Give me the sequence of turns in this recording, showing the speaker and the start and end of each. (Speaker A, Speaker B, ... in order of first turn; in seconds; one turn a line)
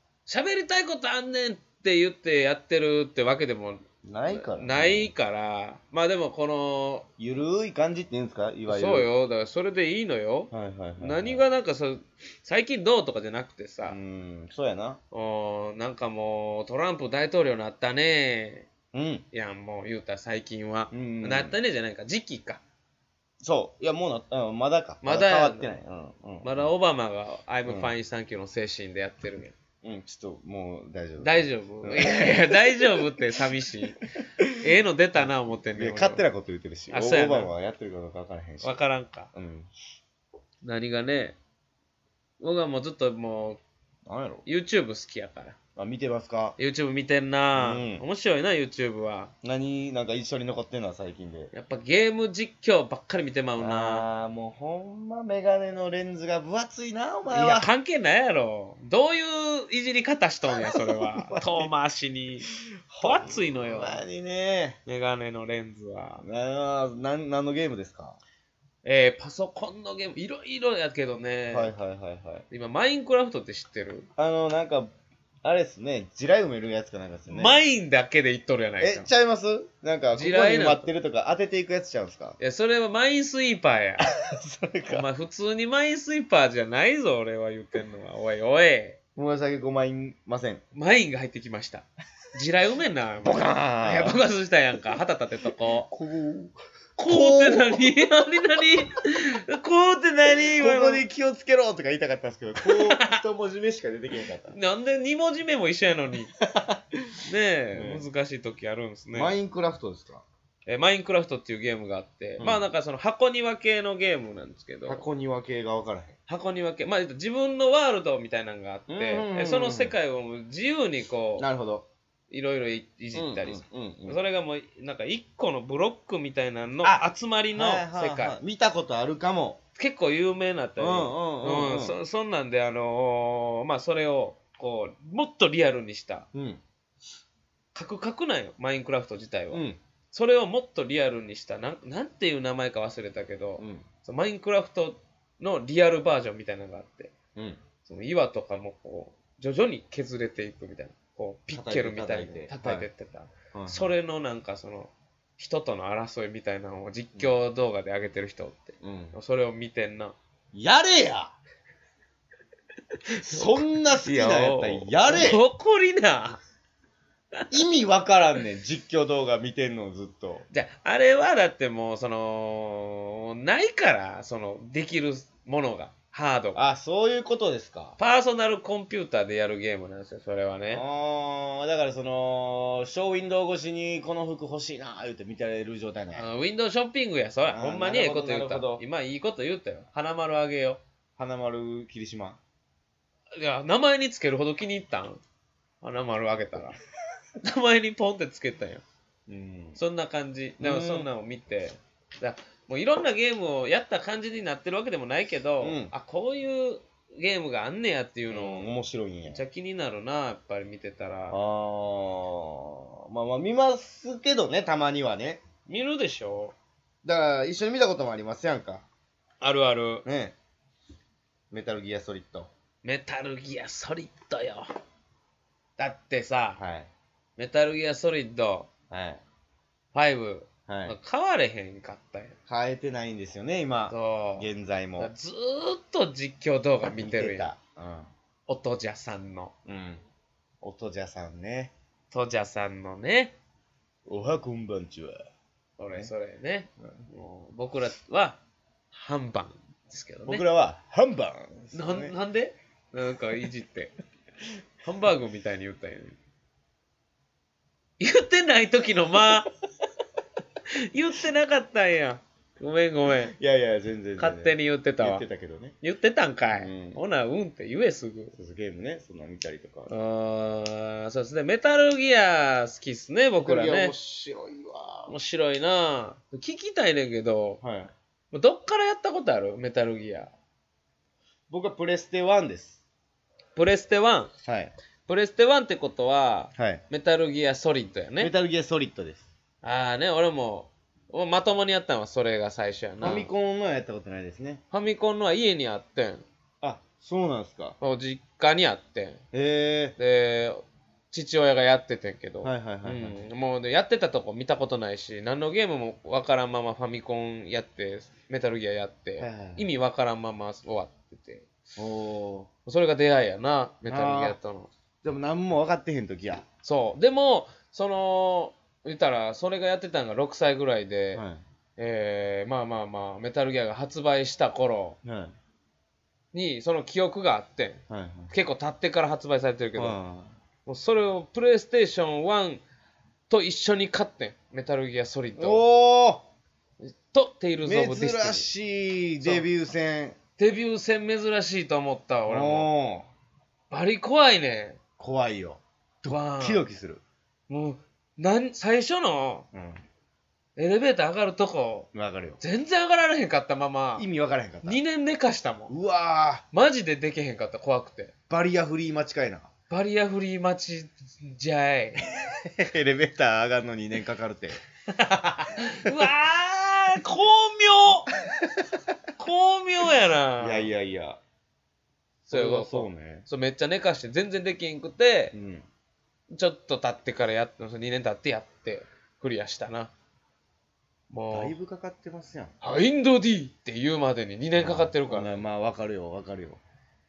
Speaker A: 0.2-7.1
Speaker B: 4.0-5.1
Speaker B: 7.2-9.1
Speaker A: 8.7-14.0
Speaker B: 10.5-11.4
Speaker B: 13.9-15.0
Speaker A: 15.1-18.7
Speaker B: 18.9-19.2
Speaker A: 19.3-22.6
Speaker B: 20.9-21.6
Speaker B: 23.4-26.7
Speaker A: 25.0-25.7
Speaker A: 26.4-29.5
Speaker B: 27.6-27.9
Speaker B: 29.8-33.2
Speaker A: 31.2-34.0
Speaker A: 34.6-36.2
Speaker B: 35.1-38.8
Speaker A: 36.9-37.5
Speaker A: 38.6-39.3
Speaker B: 39.3-39.7
Speaker A: 40.6-41.4
Speaker A: 42.4-43.6
Speaker B: 44.0-44.4
Speaker A: 44.4-45.5
Speaker B: 45.8-46.5
Speaker A: 46.6-49.3
Speaker B: 47.5-48.0
Speaker B: 49.4-51.5
Speaker A: 51.5-54.0
Speaker B: 53.6-57.7
Speaker A: 57.3-62.5
Speaker B: 60.5-61.7
Speaker B: 62.5-64.8
Speaker A: 63.0-64.0
Speaker A: 64.8-66.2
Speaker B: 66.2-68.2
Speaker A: 68.8-71.7
Speaker B: 71.5-72.5
Speaker A: 72.5-74.1
Speaker B: 74.2-74.9
Speaker B: 75.4-77.6
Speaker A: 77.3-79.1
Speaker B: 78.8-82.4
Speaker A: 80.1-80.9
Speaker A: 82.4-84.1
Speaker B: 84.2-85.1
Speaker A: 84.9-89.0
Speaker B: 89.2-90.6
Speaker A: 90.7-95.9
Speaker B: 93.2-94.2
Speaker B: 95.9-96.5
Speaker A: 97.0-101.0
Speaker B: 97.1-97.9
Speaker B: 100.4-104.5
Speaker A: 102.6-103.2
Speaker A: 104.5-106.3
Speaker B: 106.4-106.8
Speaker A: 107.2-109.3
Speaker B: 107.7-108.0
Speaker B: 109.1-110.2
Speaker A: 110.7-115.0
Speaker B: 112.4-112.6
Speaker B: 114.9-116.1
Speaker A: 116.3-121.5
Speaker B: 118.9-120.0
Speaker B: 121.4-121.8
Speaker A: 122.3-128.4
Speaker B: 123.1-124.2
Speaker B: 126.8-129.6
Speaker A: 129.8-136.3
Speaker B: 130.8-131.9
Speaker B: 136.3-136.6
Speaker A: 137.7-147.1
Speaker B: 139.5-139.8
Speaker B: 143.6-143.8
Speaker A: 147.8-160.2
Speaker B: 151.5-152.9
Speaker B: 153.5-153.9
Speaker B: 158.8-159.2
Speaker B: 160.5-161.3
Speaker A: 163.1-166.4
Speaker B: 163.2-165.4
Speaker B: 167.5-170.4
Speaker A: 170.5-176.6
Speaker B: 176.5-177.9
Speaker A: 178.0-180.8
Speaker B: 180.7-186.2
Speaker A: 186.1-190.8
Speaker B: 187.5-188.8
Speaker B: 191.2-192.4
Speaker A: 193.4-195.2
Speaker A: 195.8-196.7
Speaker A: 197.4-198.8
Speaker B: 199.3-199.8
Speaker A: 199.8-208.7
Speaker B: 200.6-201.1
Speaker B: 205.6-205.9
Speaker B: 208.3-209.4
Speaker A: 209.3-211.4
Speaker B: 211.3-215.4
Speaker A: 215.7-216.5
Speaker B: 217.0-218.8
Speaker A: 219.4-220.1
Speaker B: 220.0-220.3
Speaker B: 221.5-222.5
Speaker A: 222.8-224.7
Speaker A: 225.8-226.6
Speaker B: 226.6-226.9
Speaker A: 227.4-228.7
Speaker B: 228.9-229.2
Speaker A: 229.9-232.3
Speaker B: 230.7-231.0
Speaker B: 232.5-235.1
Speaker A: 233.9-237.5
Speaker B: 236.8-238.1
Speaker A: 238.5-239.5
Speaker B: 239.7-240.0
Speaker B: 240.6-241.7
Speaker A: 242.1-243.3
Speaker B: 244.1-245.2
Speaker A: 245.8-248.4
Speaker A: 248.9-250.4
Speaker B: 250.3-252.1
Speaker A: 251.7-253.9
Speaker A: 254.8-256.2
Speaker A: 258.0-259.5
Speaker A: 260.9-263.3
Speaker B: 263.1-265.7
Speaker A: 264.2-265.2
Speaker A: 265.8-268.3
Speaker B: 266.5-267.0
Speaker B: 268.3-269.9
Speaker A: 269.9-273.9
Speaker B: 273.4-275.1
Speaker A: 275.1-277.6
Speaker B: 277.6-277.9
Speaker A: 278.3-280.3
Speaker B: 281.5-282.8
Speaker A: 283.6-284.3
Speaker B: 284.4-284.7
Speaker A: 285.1-288.3
Speaker B: 286.6-286.8
Speaker B: 288.2-289.3
Speaker A: 289.6-293.3
Speaker B: 293.0-294.6
Speaker A: 294.7-296.2
Speaker B: 296.6-297.8
Speaker A: 297.8-299.2
Speaker B: 299.3-299.9
Speaker A: 300.0-311.4
Speaker B: 302.4-303.2
Speaker B: 309.2-309.7
Speaker B: 311.8-312.5
Speaker A: 312.6-314.7
Speaker B: 313.9-314.4
Speaker B: 315.0-316.4
Speaker A: 316.6-321.2
Speaker B: 321.1-321.4
Speaker A: 321.8-325.0
Speaker B: 325.0-325.3
Speaker A: 326.3-330.0
Speaker B: 327.9-328.3
Speaker B: 329.8-330.3
Speaker A: 330.6-332.6
Speaker A: 333.3-335.6
Speaker B: 335.4-336.2
Speaker A: 336.8-338.5
Speaker B: 337.6-340.1
Speaker A: 339.2-339.4
Speaker A: 340.4-342.7
Speaker B: 342.3-343.1
Speaker A: 343.7-344.8
Speaker B: 345.0-347.0
Speaker A: 346.0-346.6
Speaker A: 347.5-349.4
Speaker B: 349.5-349.8
Speaker A: 350.6-351.9
Speaker B: 351.9-352.4
Speaker A: 352.4-354.1
Speaker B: 354.0-354.8
Speaker A: 354.6-355.7
Speaker B: 355.7-356.4
Speaker A: 356.5-358.1
Speaker B: 358.3-359.5
Speaker A: 359.7-362.0
Speaker B: 362.2-364.6
Speaker A: 364.9-368.1
Speaker A: 369.2-370.7
Speaker B: 370.4-371.2
Speaker A: 372.3-375.3
Speaker B: 372.3-373.2
Speaker B: 375.3-375.6
Speaker A: 376.3-379.9
Speaker A: 381.1-381.5
Speaker B: 381.3-382.5
Speaker A: 382.6-385.4
Speaker B: 384.6-386.6